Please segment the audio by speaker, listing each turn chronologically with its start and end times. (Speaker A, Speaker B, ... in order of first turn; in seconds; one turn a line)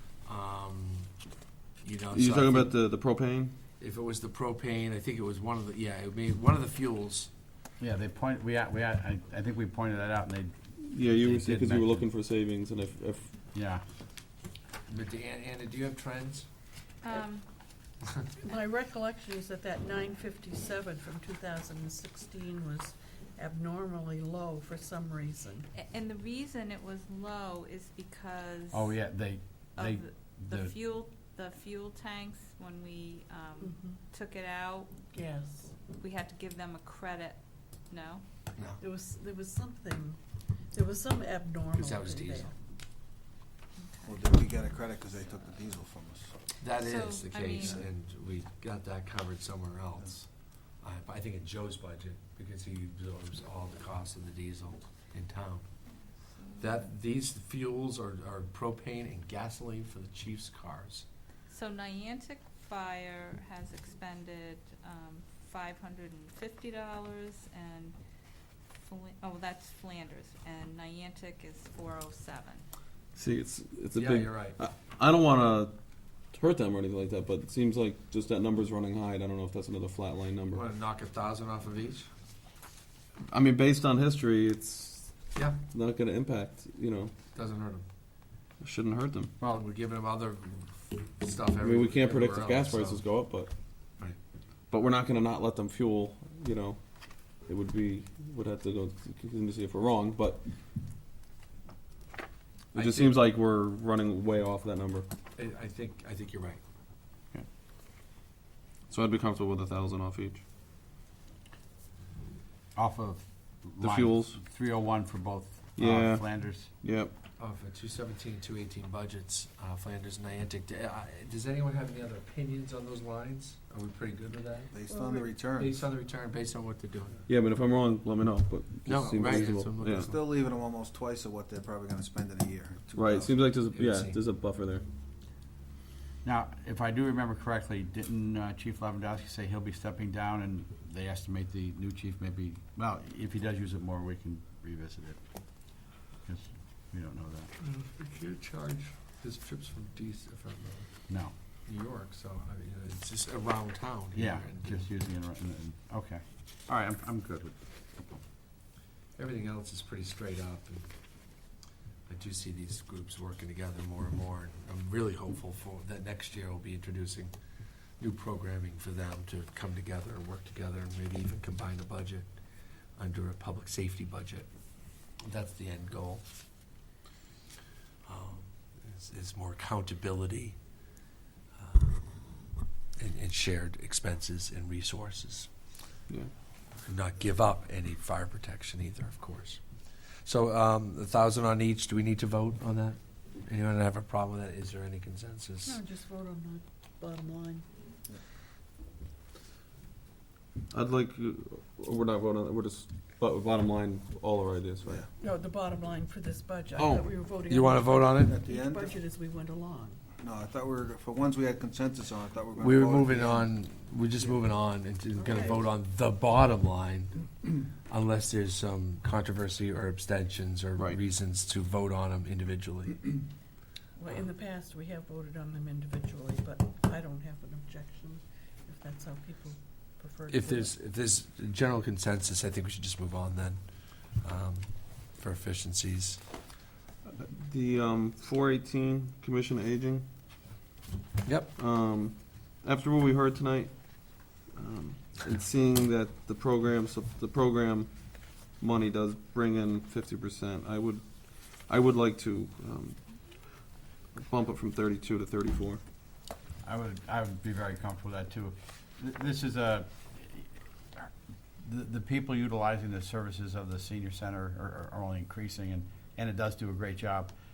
Speaker A: 0.2-1.1
Speaker A: 1.8-2.7
Speaker B: 2.1-3.5
Speaker A: 3.8-7.3
Speaker C: 7.8-12.1
Speaker B: 10.8-13.3
Speaker C: 13.5-13.8
Speaker A: 14.9-16.5
Speaker D: 17.0-17.4
Speaker E: 18.4-25.7
Speaker D: 25.8-28.9
Speaker C: 28.7-30.7
Speaker D: 29.8-34.9
Speaker E: 33.6-34.0
Speaker E: 35.1-35.7
Speaker D: 36.0-38.2
Speaker A: 38.5-38.8
Speaker E: 38.8-40.2
Speaker E: 40.7-42.5
Speaker A: 41.7-42.5
Speaker D: 43.8-44.4
Speaker F: 44.0-46.3
Speaker A: 46.6-50.3
Speaker D: 46.8-47.8
Speaker F: 47.6-47.9
Speaker A: 50.8-55.6
Speaker D: 56.2-56.8
Speaker A: 56.6-61.0
Speaker D: 61.5-68.0
Speaker D: 68.8-72.6
Speaker B: 73.1-75.8
Speaker A: 74.0-74.6
Speaker B: 76.3-80.6
Speaker A: 80.5-82.1
Speaker B: 83.3-85.1
Speaker A: 85.3-85.6
Speaker B: 85.7-87.1
Speaker A: 87.3-87.8
Speaker B: 88.6-89.3
Speaker A: 89.4-93.0
Speaker B: 91.6-93.5
Speaker B: 94.7-96.8
Speaker B: 97.4-100.4
Speaker A: 102.7-103.2
Speaker B: 102.7-105.1
Speaker A: 105.3-106.6
Speaker B: 108.9-110.4
Speaker C: 112.8-116.7
Speaker B: 113.8-114.4
Speaker B: 115.8-116.2
Speaker B: 116.8-117.1
Speaker A: 117.4-124.7
Speaker F: 124.7-125.8
Speaker E: 124.9-125.3
Speaker A: 125.6-127.2
Speaker B: 127.3-130.1
Speaker A: 128.8-130.2
Speaker F: 129.2-133.4
Speaker B: 132.9-134.8
Speaker A: 133.7-134.2
Speaker C: 136.2-145.2
Speaker C: 146.2-147.5
Speaker A: 147.6-150.9
Speaker A: 151.7-154.9
Speaker C: 154.1-157.5
Speaker A: 159.2-160.9
Speaker A: 162.1-167.3
Speaker A: 168.0-172.3
Speaker A: 173.0-174.5
Speaker A: 175.2-176.2
Speaker A: 178.0-180.6
Speaker A: 181.6-182.0
Speaker A: 183.0-185.5
Speaker A: 186.8-189.6
Speaker A: 190.2-195.8
Speaker E: 195.6-197.7
Speaker B: 200.7-205.0
Speaker E: 205.2-210.0
Speaker B: 206.8-207.1
Speaker A: 207.5-208.4
Speaker F: 208.2-209.0
Speaker F: 210.2-213.5
Speaker A: 212.6-217.2
Speaker E: 215.1-215.6
Speaker A: 217.8-223.2
Speaker E: 224.0-230.7
Speaker A: 230.3-233.6
Speaker A: 234.1-236.2
Speaker B: 237.0-240.0
Speaker A: 241.2-241.5
Speaker B: 241.5-247.9
Speaker B: 248.5-253.0
Speaker B: 254.2-255.8
Speaker C: 256.6-267.3